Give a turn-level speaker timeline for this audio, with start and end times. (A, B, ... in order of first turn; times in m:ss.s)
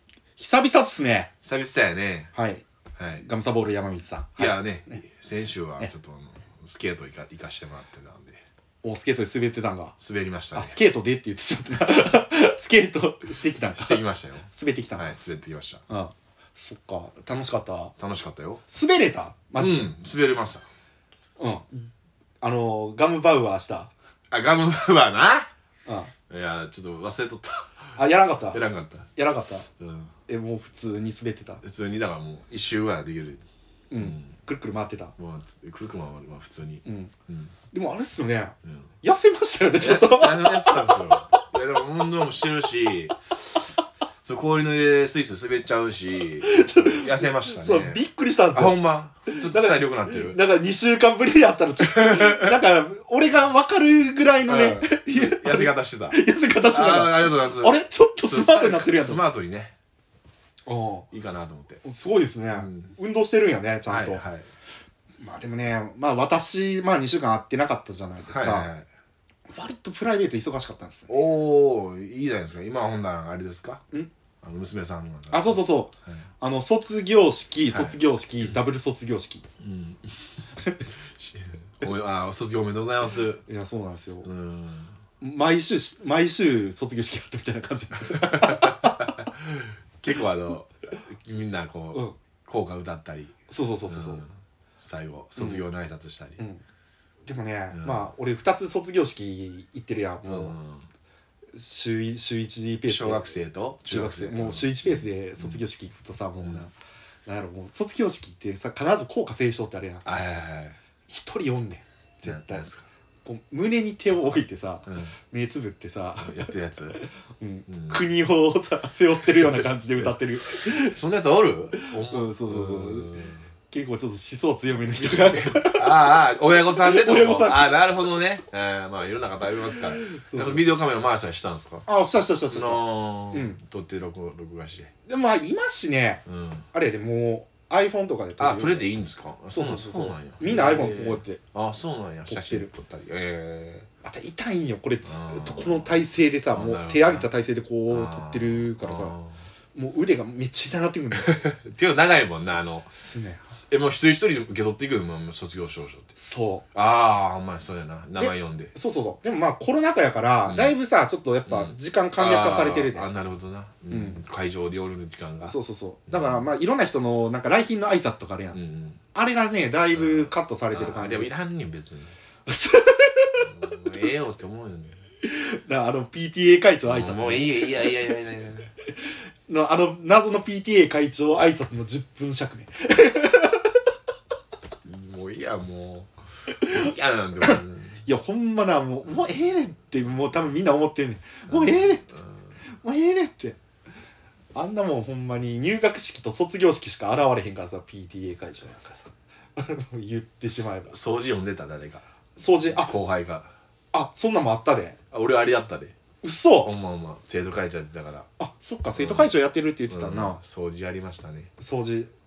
0:00.4-0:01.3 A
0:01.4-0:02.3 B
0:02.3-0:02.6 A
0:03.0-0:03.2 B
0:03.2-0:05.0 A
0:04.4-0:08.4 B
0:08.8-0:10.0 A
0:10.0-0:10.8 B
0:10.5-0:15.2 A
0:13.8-0:15.8 B
0:15.9-0:17.9 A
0:18.0-0:18.6 B
0:18.7-0:19.9 A
0:19.6-0:20.7 B
0:21.4-0:21.9 A
0:22.4-0:23.9 A
0:24.3-0:25.5 B
0:25.9-0:26.1 A
0:26.3-0:28.0 B
0:28.0-0:28.6 A
0:28.5-0:29.1 B
0:29.2-0:29.7 A
0:29.8-0:30.1 B
0:30.3-0:31.6 A
0:31.6-0:33.4 B
0:33.9-0:35.1 A
0:34.0-0:34.3 B
0:35.2-0:37.5 B
0:36.8-0:37.1 A
0:37.7-0:41.1 A
0:38.6-0:38.9 B
0:39.8-0:43.6 B
0:44.2-0:48.0 B
0:46.4-0:59.2 A
0:48.5-0:50.4 B
0:51.9-0:52.5 B
0:54.5-0:59.7 B
1:00.7-1:01.1 A
1:01.1-1:01.8 B
1:01.8-1:04.2 A
1:02.5-1:02.9 B
1:03.9-1:04.5 B
1:05.2-1:08.7 A
1:08.3-1:08.9 B
1:09.5-1:11.2 A
1:11.1-1:13.8 B
1:14.4-1:16.3 B
1:15.3-1:19.5 A
1:17.7-1:18.6 B
1:19.6-1:20.2 B
1:20.6-1:20.9 A
1:21.0-1:23.4 B
1:23.5-1:24.3 A
1:24.2-1:25.0 B
1:25.2-1:29.2 A
1:28.1-1:33.4 B
1:33.5-1:34.3 A
1:33.9-1:36.4 B
1:35.4-1:35.6 A
1:36.4-1:36.6 A
1:37.3-1:40.6 A
1:37.7-1:38.1 B
1:40.2-1:40.9 B
1:41.5-1:46.7 A
1:42.9-1:45.6 B
1:46.4-1:46.7 B
1:47.3-1:50.0 A
1:50.0-1:50.8 B
1:51.1-1:52.7 A
1:52.2-1:52.8 B
1:53.2-2:01.0 A
1:54.9-1:55.1 B
1:56.2-1:57.0 B
1:57.7-1:58.1 B
1:59.4-2:03.5 B
2:01.8-2:03.2 A
2:03.7-2:06.1 A
2:05.0-2:11.9 B
2:06.8-2:07.8 A
2:10.0-2:10.6 A
2:11.9-2:13.6 A
2:12.5-2:14.9 B
2:15.1-2:18.9 A
2:16.3-2:16.7 B
2:18.4-2:23.9 B
2:19.5-2:21.4 A
2:22.3-2:22.7 A
2:24.0-2:29.2 A
2:25.0-2:25.9 B
2:26.5-2:27.3 B
2:27.9-2:29.4 B
2:29.7-2:31.4 A
2:31.1-2:33.0 B
2:33.0-2:33.5 A
2:33.5-2:36.1 B
2:36.2-2:36.6 A
2:36.7-2:38.7 B
2:38.2-2:43.1 A
2:40.5-2:40.8 B
2:41.5-2:45.6 B
2:43.9-2:44.2 A
2:45.4-2:48.6 A
2:46.1-2:46.5 B
2:48.5-2:49.0 B
2:49.1-2:51.3 A
2:49.9-2:52.2 B
2:52.5-2:53.5 A
2:53.4-2:55.0 B
2:55.2-2:57.8 A
2:56.9-2:58.7 B
2:59.5-3:03.8 A
3:04.8-3:08.0 B
3:06.5-3:12.0 A
3:11.5-3:12.5 B
3:12.8-3:13.6 A
3:14.5-3:21.0 A
3:20.5-3:22.0 B
3:22.4-3:23.0 A
3:22.7-3:23.6 B
3:23.9-3:25.0 A
3:25.1-3:25.9 B
3:26.2-3:26.7 A
3:26.6-3:28.3 B
3:28.4-3:30.4 A
3:29.0-3:29.3 B
3:29.9-3:31.5 B
3:31.6-3:32.1 A